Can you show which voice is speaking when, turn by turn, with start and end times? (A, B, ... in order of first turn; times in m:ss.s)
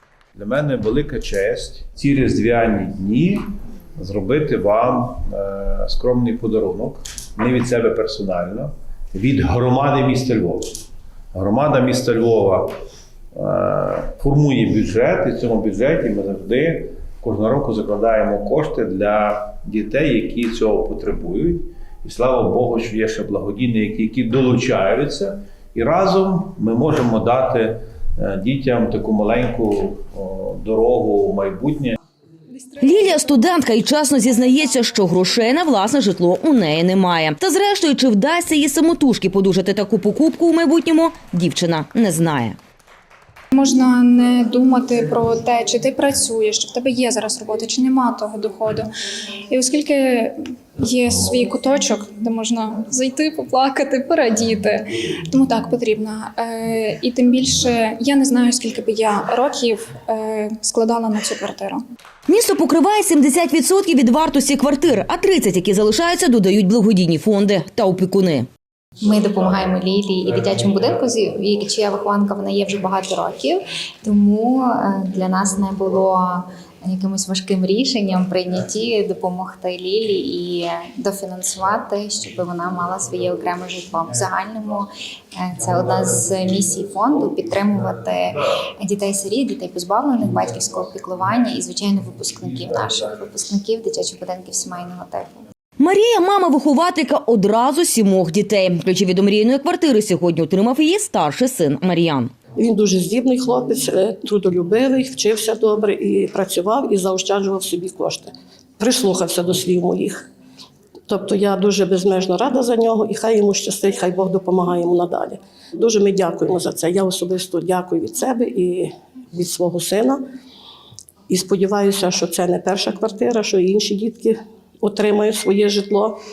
0:00.3-0:03.4 A
0:04.0-0:10.8 A
0:11.3-0:12.7 A
0:13.3-0:31.9 A
0:32.6-0:33.1 B
0:32.8-0:42.6 C
0:43.5-0:48.9 B
0:49.5-1:01.8 B
1:02.3-1:08.5 C
1:09.0-1:35.4 D
1:35.8-1:42.3 C
1:42.6-1:50.3 E
1:51.1-2:00.2 E
2:01.3-2:06.2 E